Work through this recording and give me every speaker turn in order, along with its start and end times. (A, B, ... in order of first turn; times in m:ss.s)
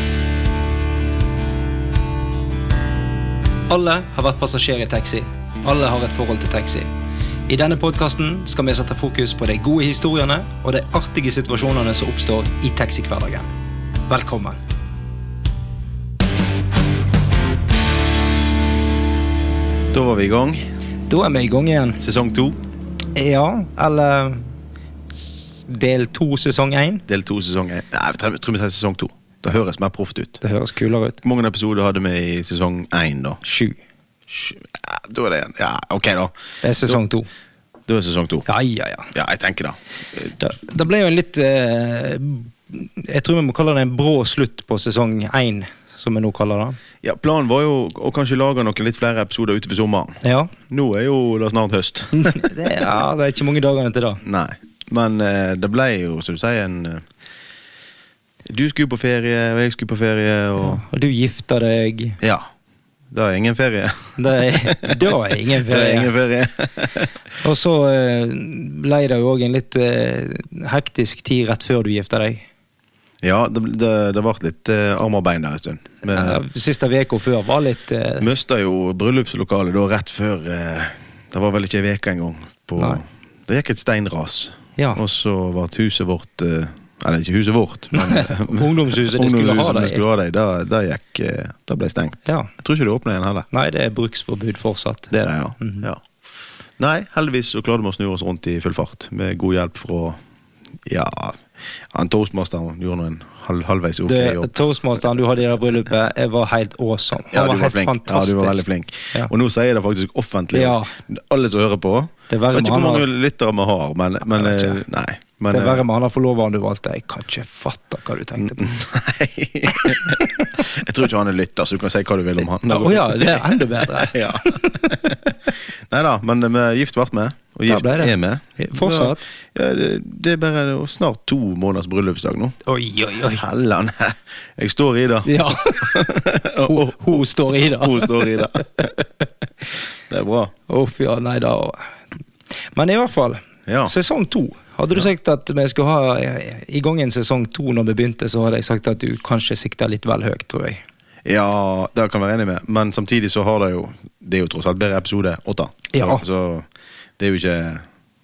0:03.7-0:06.9 A
0:07.5-0:13.5 A
0:14.1-0:14.6 A
0:19.9-0:20.7 B
0:21.1-0:22.0 A
0:22.0-0:22.6 B
0:23.2-0:24.6 A
0:25.1-0:27.0 A
0:27.1-0:30.4 B
0:30.4-0:31.2 A
0:31.2-0:33.4 B
0:33.4-0:33.8 A
0:34.3-0:37.0 B
0:36.6-0:37.3 A
0:37.9-0:38.5 B
0:38.5-0:39.1 A
0:39.1-0:40.4 B
0:40.4-0:46.8 A
0:47.0-0:52.6 B
0:50.2-0:50.5 A
0:52.1-0:54.2 A
0:54.2-0:57.1 B
0:58.5-1:00.8 B
1:00.6-1:02.2 A
1:02.2-1:02.5 B
1:03.1-1:07.1 B
1:04.2-1:06.1 A
1:07.4-1:12.4 A
1:13.2-1:16.4 B
1:16.1-1:18.3 A
1:18.2-1:33.5 B
1:27.9-1:30.0 A
1:32.3-1:32.5 A
1:33.5-1:35.9 A
1:35.1-1:36.0 B
1:36.8-1:40.2 B
1:40.8-1:44.5 B
1:44.1-1:49.3 A
1:47.3-1:55.8 B
1:50.5-1:50.9 A
1:52.3-1:53.1 A
1:54.3-1:54.8 A
1:55.5-1:58.7 A
1:58.4-2:12.6 B
2:02.7-2:05.0 A
2:07.7-2:09.2 A
2:12.7-2:13.4 A
2:13.3-2:19.0 B
2:15.2-2:16.1 A
2:16.7-2:18.5 A
2:20.1-2:20.5 B
2:20.7-2:21.9 A
2:22.8-2:30.8 A
2:23.7-2:23.9 B
2:31.2-2:36.7 B
2:35.9-2:36.2 A
2:37.2-2:37.9 B